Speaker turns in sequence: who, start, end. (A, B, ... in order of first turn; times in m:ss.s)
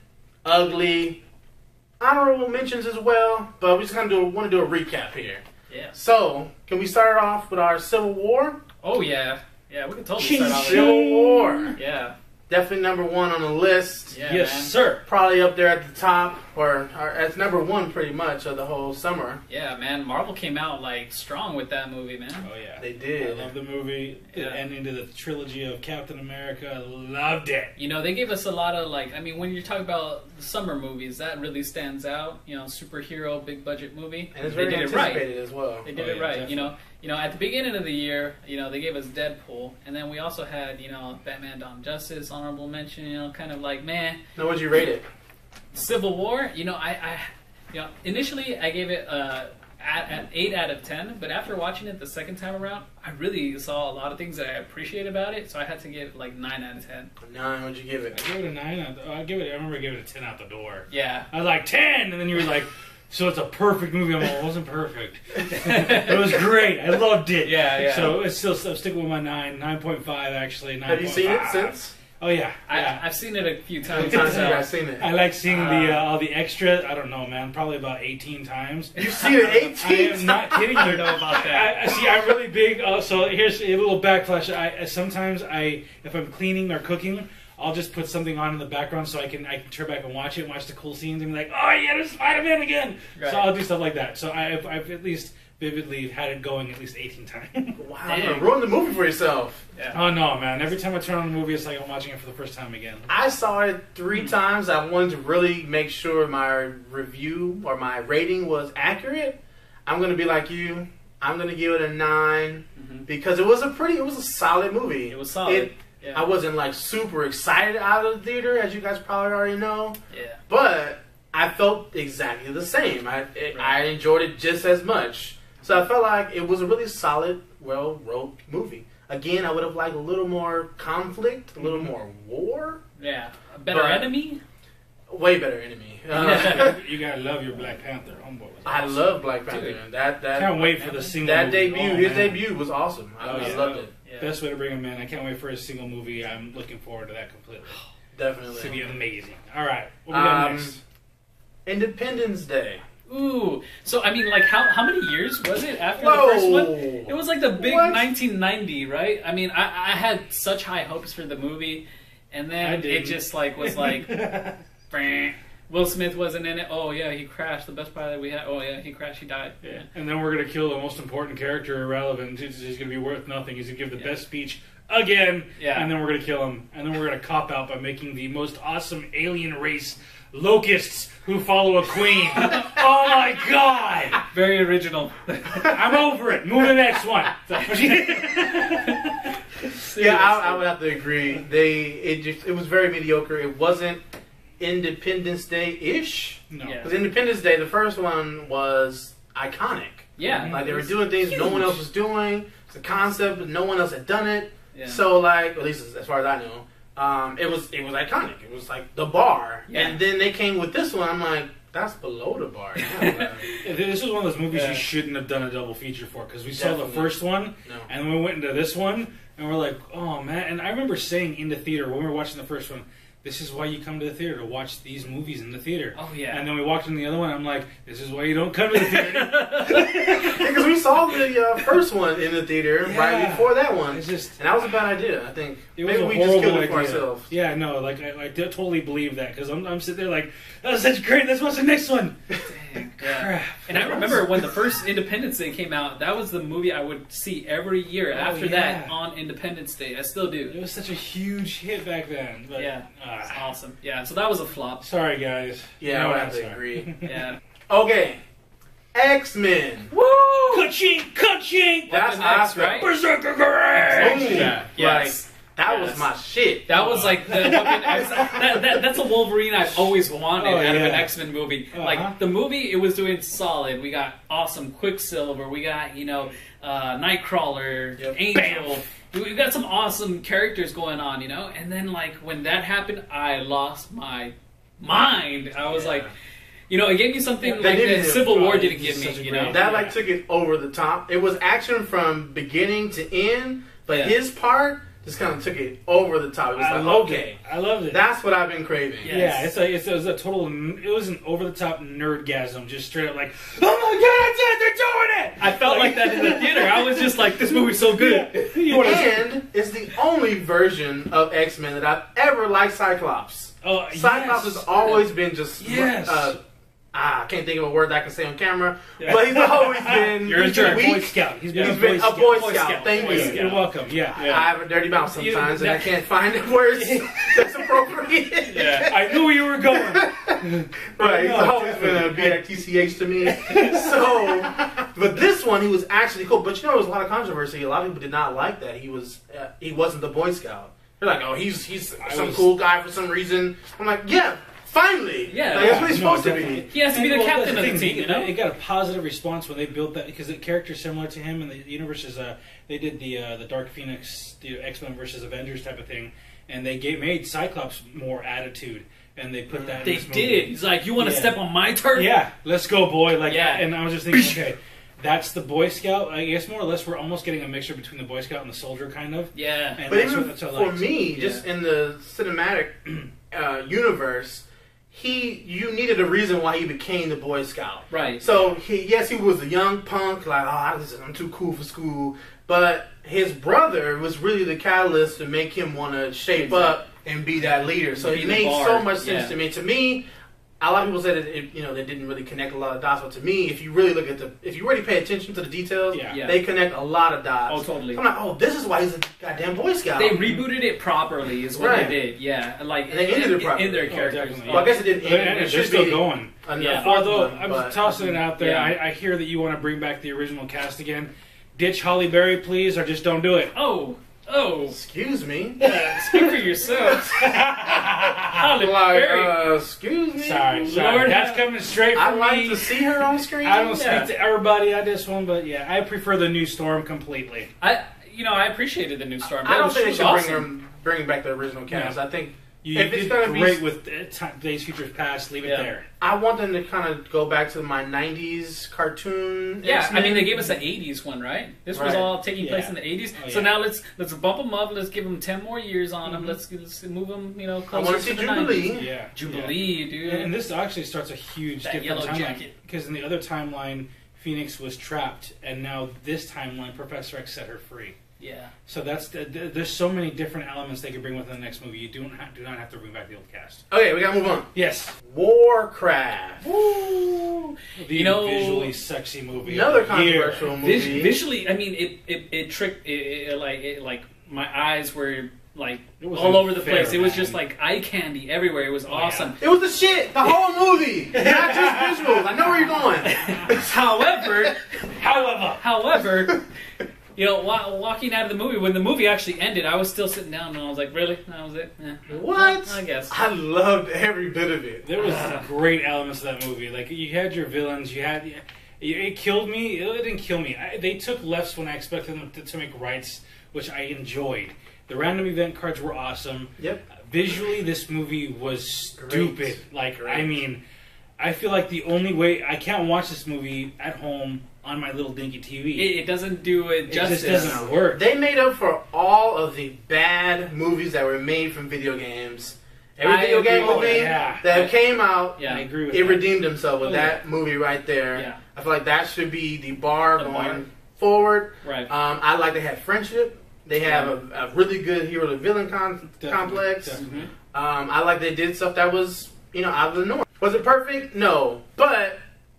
0:00.4-0:01.2 A
0:02.0-0:05.4 A
0:05.7-0:06.0 B
0:06.0-0:08.6 A
0:08.8-0:11.0 B
0:10.2-0:11.8 C
0:10.4-0:11.7 A
0:11.8-0:12.2 B
0:12.5-0:14.2 A
0:14.1-0:14.8 B
0:14.2-0:15.1 C
0:15.1-0:19.4 A
0:19.5-0:22.5 B
0:22.4-0:27.8 C
0:22.8-0:23.5 A
0:24.3-0:24.6 B
0:27.8-0:35.3 B
0:34.3-0:35.9 A
0:35.8-0:44.2 B
0:35.9-0:36.7 C
0:44.4-0:45.1 A
0:45.7-0:57.1 B
0:57.2-0:58.2 A
0:58.1-1:13.0 C
1:00.9-1:01.3 B
1:05.6-1:06.4 B
1:07.4-1:08.2 B
1:10.9-1:11.9 A
1:12.7-1:14.6 B
1:13.9-1:16.0 A
1:14.0-1:37.8 C
1:15.5-1:16.0 B
1:19.0-1:21.0 A
1:20.8-1:21.8 B
1:33.2-1:33.5 B
1:37.8-1:39.6 A
1:38.1-1:38.5 B
1:39.9-1:43.1 C
1:43.1-2:00.0 A
1:52.8-1:53.1 B
1:55.1-1:56.3 B
2:00.1-2:00.4 B
2:00.5-2:12.8 A
2:11.6-2:11.9 C
2:13.0-2:14.4 B
2:13.7-2:14.1 A
2:15.1-2:16.8 A
2:16.1-2:16.8 B
2:16.2-2:19.1 C
2:18.6-2:23.9 A
2:19.5-2:19.8 B
2:20.3-2:22.4 C
2:20.8-2:21.1 B
2:23.2-2:27.8 C
2:23.3-2:24.3 B
2:28.1-2:28.8 A
2:28.6-2:30.8 C
2:30.1-2:30.8 A
2:31.7-2:32.8 A
2:33.1-2:44.3 B
2:36.0-2:38.1 A
2:42.6-2:44.6 C
2:44.9-2:49.9 B
2:49.7-3:04.2 C
2:55.6-2:55.9 B
3:02.4-3:02.7 B
3:04.3-3:05.8 B
3:05.5-3:09.3 C
3:07.5-3:10.7 B
3:10.0-3:14.0 A
3:14.6-3:33.4 A
3:16.5-3:16.8 C
3:16.6-3:16.9 B
3:20.2-3:21.8 B
3:20.3-3:20.8 C
3:24.7-3:25.0 B
3:29.7-3:30.0 B
3:32.8-3:33.6 B
3:33.6-3:50.6 C
3:34.5-3:34.8 B
3:36.5-3:37.1 A
3:46.0-3:46.5 B
3:49.5-3:50.1 B
3:49.6-3:57.3 A
3:52.8-3:54.8 C
3:55.8-4:02.2 C
4:02.4-4:10.6 B
4:03.0-4:04.3 C
4:03.8-4:04.2 A
4:08.1-4:09.0 C
4:10.5-4:13.4 C
4:12.6-4:14.9 B
4:14.8-4:17.2 C
4:15.8-4:17.0 A
4:17.0-4:17.4 B
4:17.7-4:18.2 A
4:18.9-4:19.9 A
4:19.9-4:20.7 B
4:20.5-4:22.2 C
4:21.9-4:22.9 A
4:21.9-4:22.9 B
4:22.7-4:24.6 C
4:23.9-4:26.8 A
4:23.9-4:26.1 B
4:26.7-4:46.1 B
4:26.7-4:28.9 C
4:27.9-4:28.3 A
4:30.4-4:31.1 C
4:31.7-4:32.2 C
4:38.3-4:38.8 C
4:45.7-4:46.0 C
4:46.7-4:49.9 B
4:47.4-4:48.4 A
4:48.2-4:50.0 C
4:49.5-4:59.2 A
4:53.9-4:54.2 B
4:56.5-4:58.0 C
4:59.0-4:59.5 B
4:59.1-5:09.3 C
5:05.4-5:09.0 B
5:08.7-5:16.4 A
5:13.6-5:14.7 C
5:15.6-5:16.4 C
5:16.9-5:23.5 A
5:19.0-5:19.2 B
5:19.1-5:22.4 C
5:20.2-5:20.9 B
5:21.5-5:24.5 B
5:23.0-5:24.2 C
5:24.2-5:46.6 A
5:25.1-5:25.9 B
5:26.8-5:27.4 B
5:28.5-5:29.0 B
5:28.8-5:32.4 C
5:33.2-5:34.6 C
5:42.0-5:42.5 C
5:45.3-5:45.9 B
5:45.5-6:01.4 C
5:46.7-5:48.3 B
5:59.5-5:59.8 A
5:59.8-6:02.2 B
6:01.9-6:10.9 C
6:03.2-6:04.3 B
6:09.3-6:09.8 B
6:09.9-6:30.0 A
6:11.2-6:11.4 B
6:17.9-6:18.3 B
6:26.3-6:26.8 B
6:28.0-6:29.3 B
6:30.6-6:40.4 A
6:35.9-6:36.2 C
6:36.1-6:36.4 B
6:37.5-6:38.0 B
6:40.0-6:44.8 B
6:41.6-6:42.0 A
6:41.7-6:42.0 C
6:42.9-6:47.8 A
6:43.9-6:53.5 C
6:46.6-6:46.9 B
6:47.9-6:48.7 B
6:53.5-6:54.8 B
6:54.7-6:55.6 A
6:55.6-6:56.5 C
6:55.6-6:57.2 B
6:56.8-6:57.2 A
6:57.1-6:58.6 C
6:57.8-6:59.4 B
6:58.5-7:00.8 A
7:00.2-7:07.5 C
7:00.6-7:01.4 B
7:01.9-7:03.8 A
7:03.7-7:04.1 B
7:07.6-7:10.5 B
7:09.3-7:13.6 A
7:11.7-7:12.0 C
7:12.6-7:15.9 C
7:15.4-7:15.7 B
7:16.0-7:20.4 A
7:19.6-7:30.3 B
7:21.7-7:22.1 A
7:22.4-7:23.6 C
7:26.1-7:26.4 C
7:27.7-7:28.9 A
7:28.7-7:38.0 C
7:31.6-7:32.5 B
7:38.2-7:38.5 B
7:38.7-7:43.6 C
7:43.7-7:44.5 A
7:44.5-7:45.0 C
7:45.1-7:46.4 A
7:46.4-7:48.7 B
7:47.8-7:50.5 C
7:49.4-7:51.2 A
7:50.6-7:59.4 B
7:56.0-7:57.4 C
7:58.9-7:59.3 C
7:59.4-8:03.8 A
8:01.1-8:02.8 C
8:03.0-8:06.4 B
8:05.0-8:05.7 C
8:07.2-8:13.1 B
8:12.1-8:14.8 A
8:14.8-8:30.6 C
8:15.0-8:15.5 B
8:26.6-8:26.8 A
8:29.0-8:30.4 A
8:31.2-8:36.0 C
8:35.8-8:37.7 B
8:36.9-8:38.0 C
8:37.3-9:02.2 A
8:43.0-8:44.7 B
8:43.5-8:44.5 C
8:45.4-8:45.6 B
8:45.4-8:47.2 C
8:48.1-8:48.4 B
8:50.2-8:50.6 B
8:51.6-8:51.9 B
8:53.8-8:54.2 B
8:56.2-8:57.0 C
8:57.0-8:57.3 B